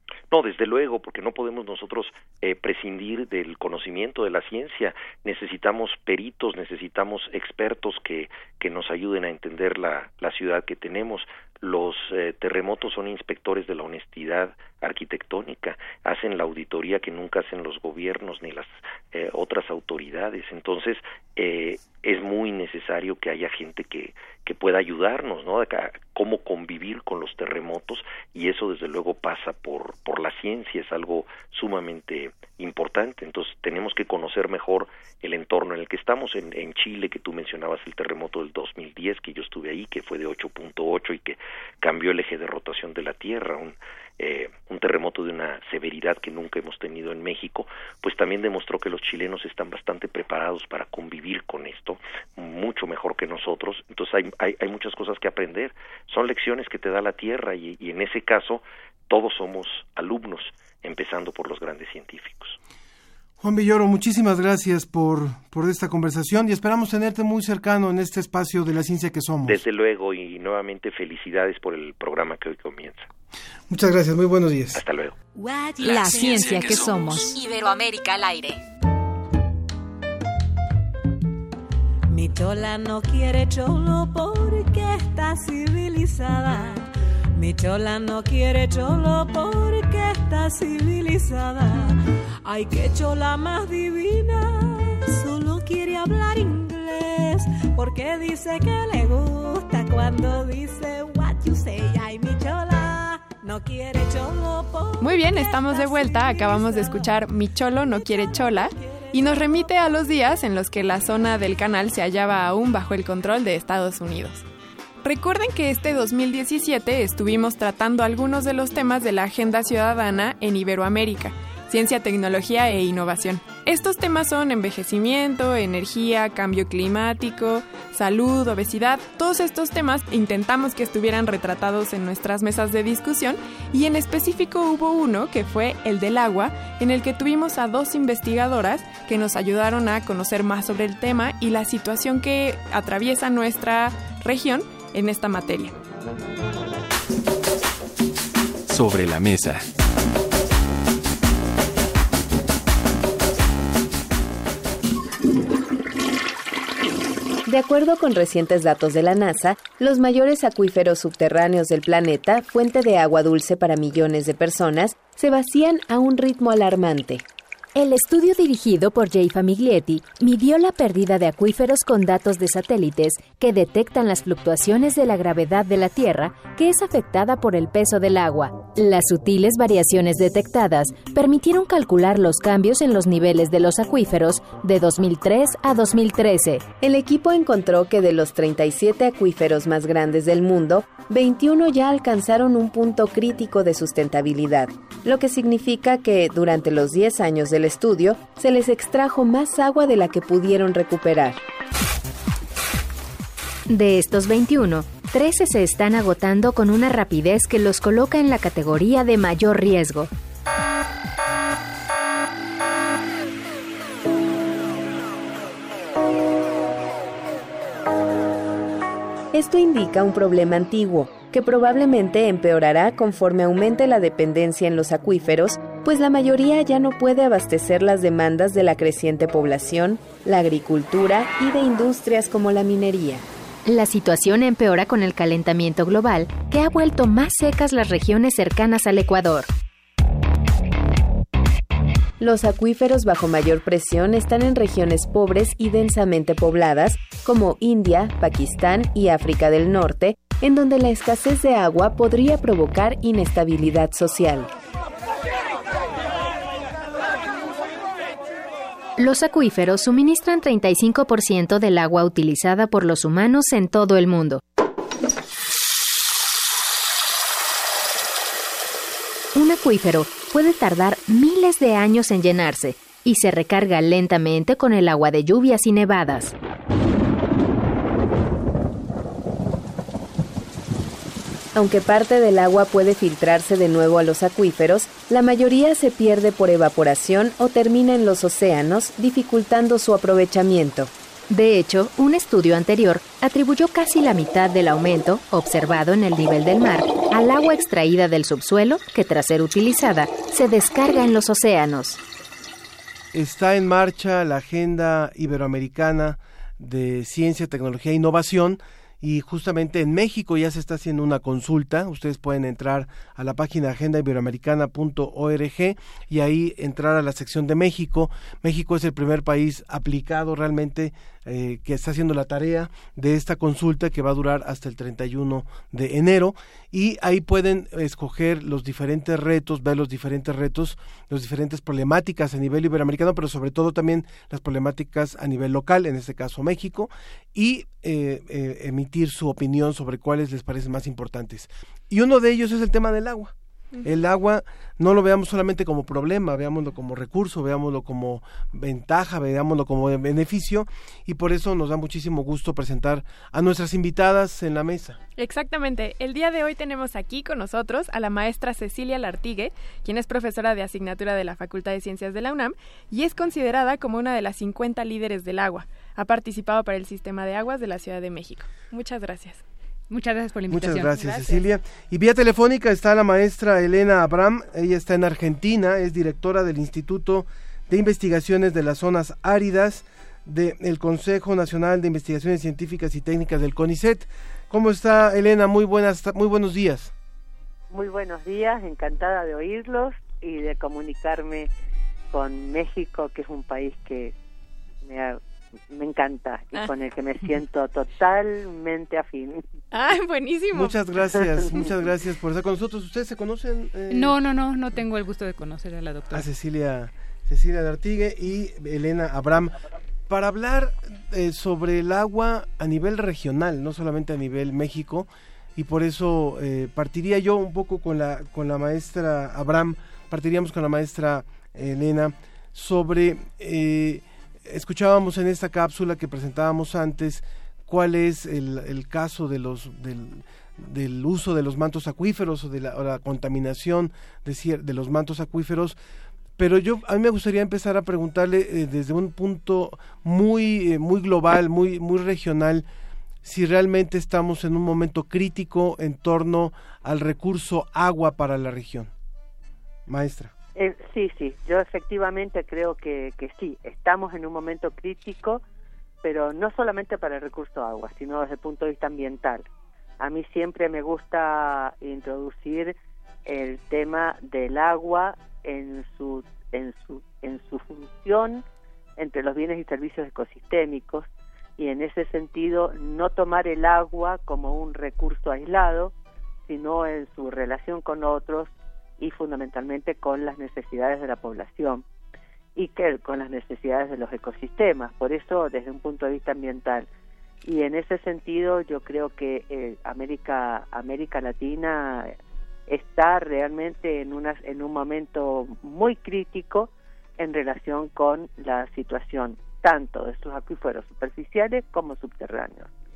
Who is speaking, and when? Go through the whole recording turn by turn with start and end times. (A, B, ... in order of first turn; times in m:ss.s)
0:00.3-1:02.6 A
1:03.4-1:09.6 B
1:09.4-1:13.1 A
1:13.7-1:14.8 B
1:14.7-1:15.2 A
1:15.4-1:17.9 C
1:15.8-1:16.9 D
1:15.9-1:17.2 E
1:22.1-1:47.2 C
1:45.0-1:54.4 F
1:48.0-1:49.7 C
1:55.0-2:25.7 F
2:28.7-2:29.6 D
2:37.4-2:47.2 G
2:47.8-3:06.6 E
3:06.8-3:21.4 G
3:23.7-3:30.1 E
3:39.3-3:53.2 G
3:53.6-3:59.5 E
4:02.2-4:14.5 G
4:19.0-4:24.4 E
4:29.4-4:36.3 E
4:41.5-4:50.9 G
4:51.3-5:02.0 E
5:03.1-5:43.3 B
5:43.8-5:55.0 B
5:55.2-6:09.4 F
6:09.9-6:11.4 H
6:10.5-6:26.9 B
6:27.7-6:31.5 I
6:32.1-6:34.1 I
6:34.8-6:39.4 I
6:39.7-6:40.8 F
6:40.5-6:44.2 B
6:43.9-6:46.2 H
6:46.1-6:49.6 B
6:50.1-7:15.8 B
7:16.4-7:22.6 B
7:23.2-7:28.9 B
7:29.9-7:30.3 B
7:30.5-7:35.4 I
7:36.0-7:39.4 I
7:40.0-7:48.4 I
7:49.0-7:51.0 I
7:51.6-7:55.9 I
7:56.5-8:01.8 I
8:02.6-8:06.9 I
8:07.4-8:12.1 I
8:12.7-8:22.7 I